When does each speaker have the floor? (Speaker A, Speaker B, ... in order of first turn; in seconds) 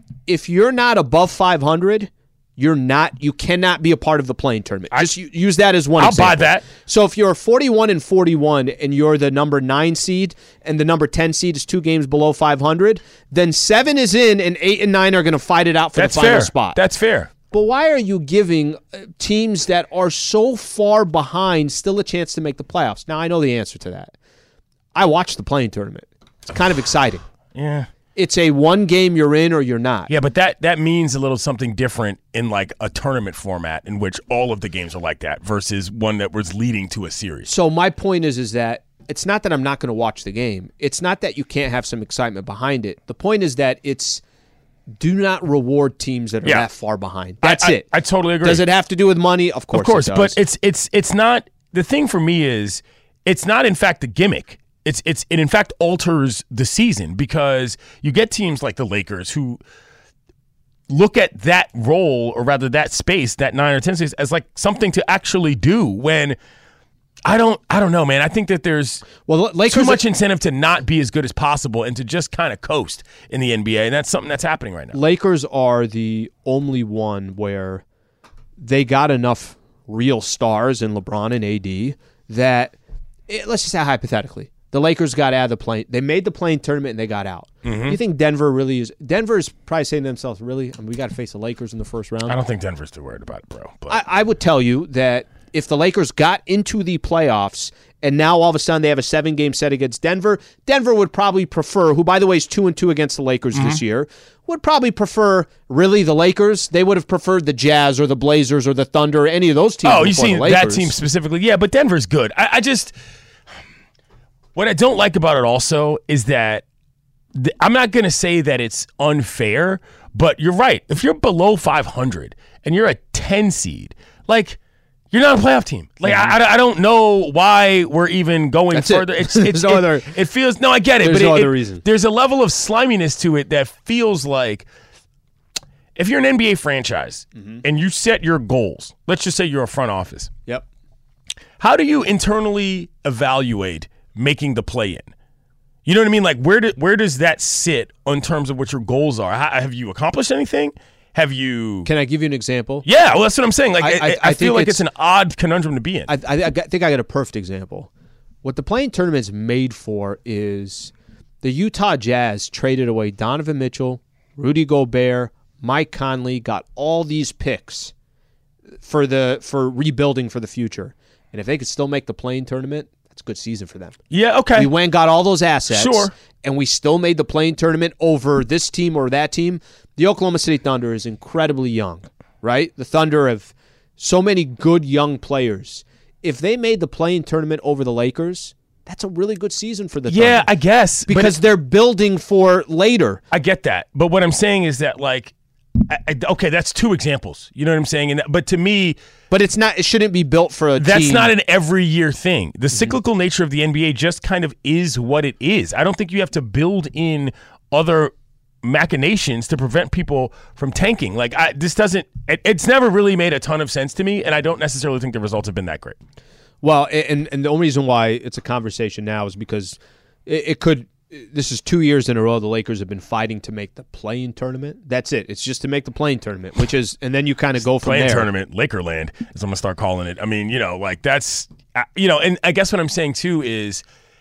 Speaker A: 0.3-16.8, 17.5-24.1, 24.9-27.2, 28.2-30.1, 37.5-44.2, 45.0-47.9, 48.4-50.4, 69.3-70.0, 74.9-77.8, 78.6-82.8, 83.3-92.4, 93.9-111.0, 126.0-126.3, 128.7-130.1, 131.0-131.8, 137.4-137.6, 151.8-152.9, 153.8-154.8, 156.1-157.9, 158.4-167.9, 168.8-174.0, 174.6-190.5, 191.1-193.2, 199.3-201.3, 216.6-228.3
Speaker B: 6.0-6.7, 16.0-17.3, 27.5-27.9, 30.1-37.5, 47.4-48.7, 49.7-59.6, 60.9-66.4, 67.2-69.1, 69.7-75.0, 87.6-88.0, 92.3-94.0, 103.5-103.8, 109.8-113.0, 114.5-116.6, 117.3-124.6, 125.1-134.7, 136.0-140.3, 141.6-145.1, 145.9-151.9, 152.8-156.1, 174.1-174.7, 175.7-176.1, 190.1-191.4, 193.3-195.3, 195.9-199.0, 200.8-208.1, 208.6-216.0, 227.8-233.8